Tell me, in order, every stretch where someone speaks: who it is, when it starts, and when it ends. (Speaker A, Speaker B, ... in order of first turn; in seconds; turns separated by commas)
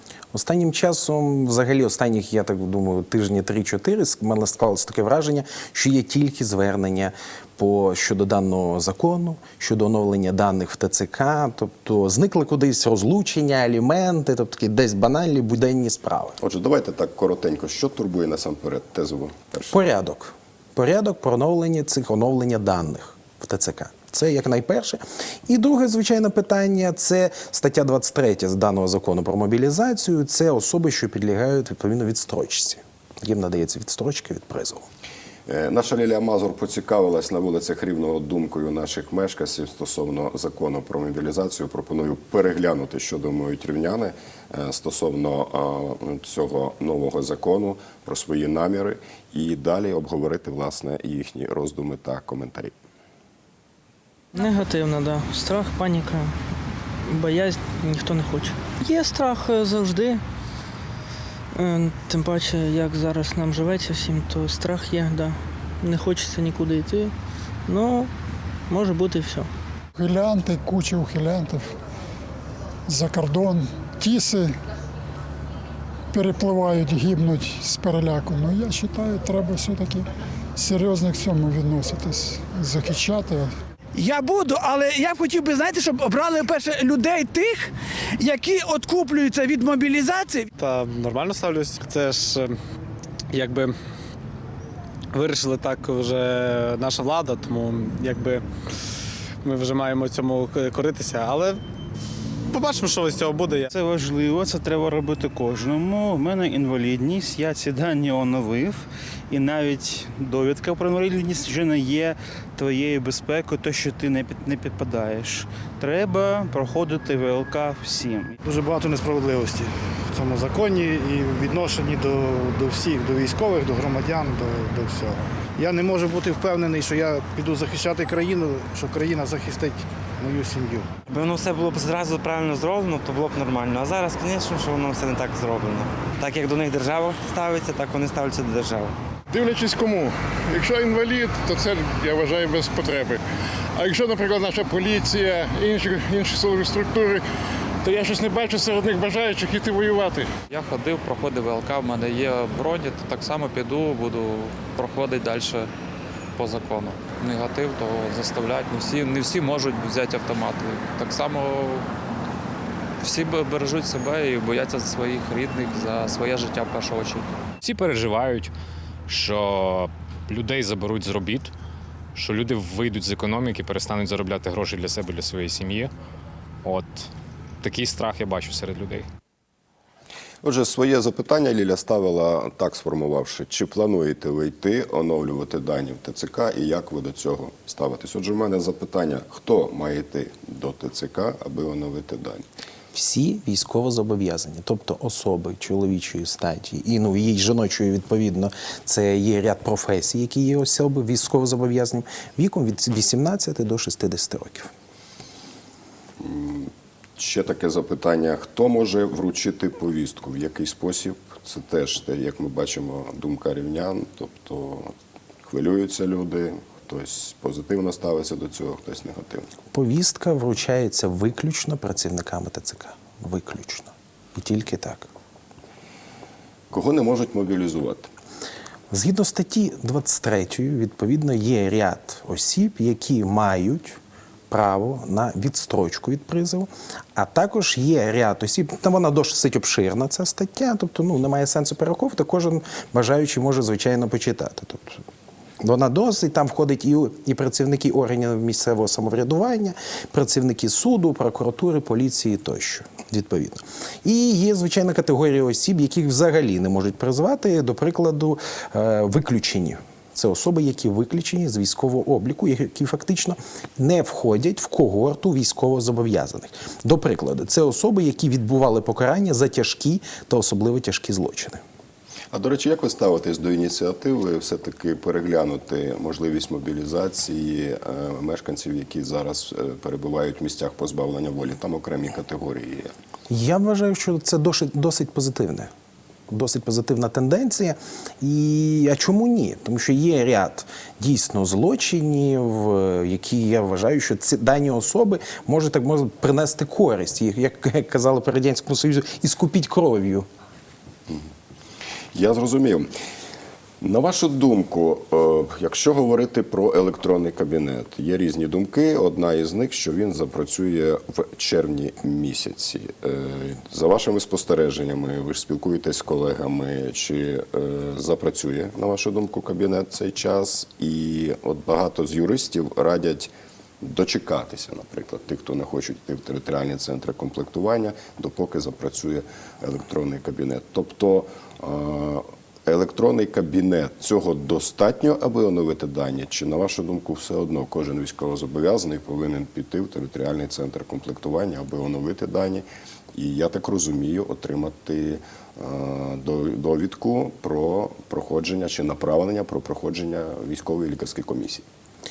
Speaker A: 0.3-16.4, Speaker B: 16.4-19.8, Speaker A: 19.7-34.9, Speaker B: 35.5-52.7, Speaker C: 54.3-56.3, Speaker C: 57.0-60.2, Speaker C: 61.5-67.1, Speaker C: 67.7-68.1, Speaker C: 68.7-69.5, Speaker D: 70.0-71.7, Speaker D: 72.9-74.6, Speaker D: 76.1-83.5, Speaker E: 83.9-90.5, Speaker F: 90.6-92.6, Speaker F: 93.3-93.8, Speaker F: 95.1-98.4, Speaker F: 99.4-101.6, Speaker F: 102.5-103.7, Speaker G: 103.7-118.3, Speaker H: 118.4-130.9, Speaker I: 131.1-138.9, Speaker J: 139.3-143.2, Speaker J: 143.8-147.2, Speaker J: 147.8-150.3, Speaker K: 150.5-155.7, Speaker K: 156.3-161.9, Speaker K: 163.0-167.3, Speaker L: 167.6-168.5, Speaker L: 169.1-171.5, Speaker L: 172.2-175.9, Speaker L: 176.6-177.1, Speaker L: 177.6-179.1, Speaker B: 180.4-192.5, Speaker A: 192.9-204.7, Speaker B: 206.2-214.9, Speaker B: 215.4-219.5, Speaker A: 219.7-225.1, Speaker B: 226.7-228.1, Speaker A: 228.9-245.0, Speaker A: 245.6-271.6, Speaker B: 272.3-282.9, Speaker A: 283.3-285.7, Speaker A: 286.3-300.3, Speaker B: 302.1-302.9, Speaker B: 303.8-351.6